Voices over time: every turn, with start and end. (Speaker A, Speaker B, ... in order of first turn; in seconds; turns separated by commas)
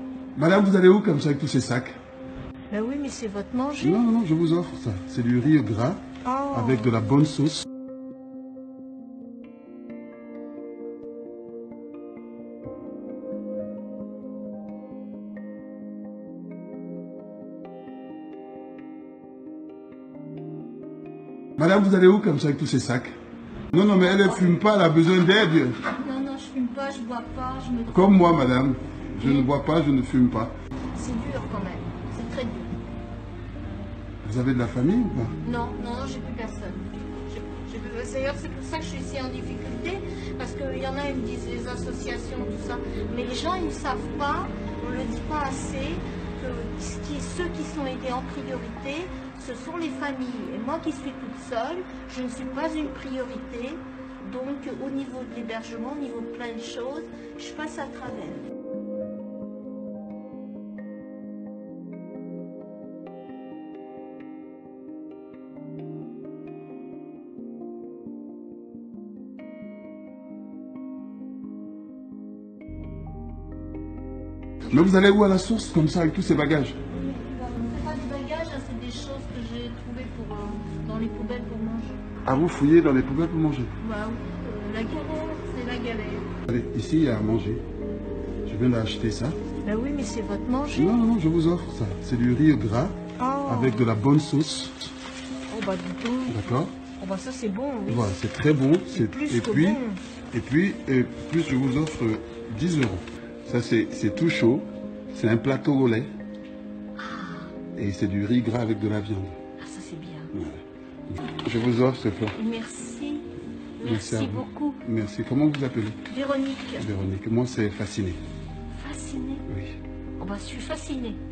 Speaker A: 0.4-1.9, Speaker B: 2.7-4.0, Speaker A: 3.8-7.7, Speaker B: 6.2-7.0, Speaker A: 21.6-23.1, Speaker A: 23.7-25.8, Speaker B: 25.9-28.3, Speaker A: 27.9-30.5, Speaker B: 29.2-29.5, Speaker B: 30.9-32.7, Speaker A: 34.2-35.3, Speaker B: 35.4-58.5, Speaker A: 74.7-76.8, Speaker B: 76.9-82.0, Speaker A: 82.2-83.7, Speaker B: 83.8-86.3, Speaker A: 86.5-87.6, Speaker A: 88.5-89.4, Speaker B: 89.7-91.0, Speaker A: 90.8-94.9, Speaker B: 93.2-94.0, Speaker B: 95.5-98.2, Speaker A: 96.3-96.7, Speaker A: 97.9-106.1, Speaker B: 98.9-100.0, Speaker B: 107.0-107.5, Speaker A: 107.8-109.3, Speaker B: 109.6-110.3, Speaker A: 110.3-112.4, Speaker B: 112.3-113.3, Speaker B: 113.8-114.8, Speaker A: 113.8-116.0, Speaker B: 116.1-116.9, Speaker A: 116.8-118.2, Speaker B: 118.8-119.4, Speaker A: 119.5-119.8, Speaker B: 120.2-121.2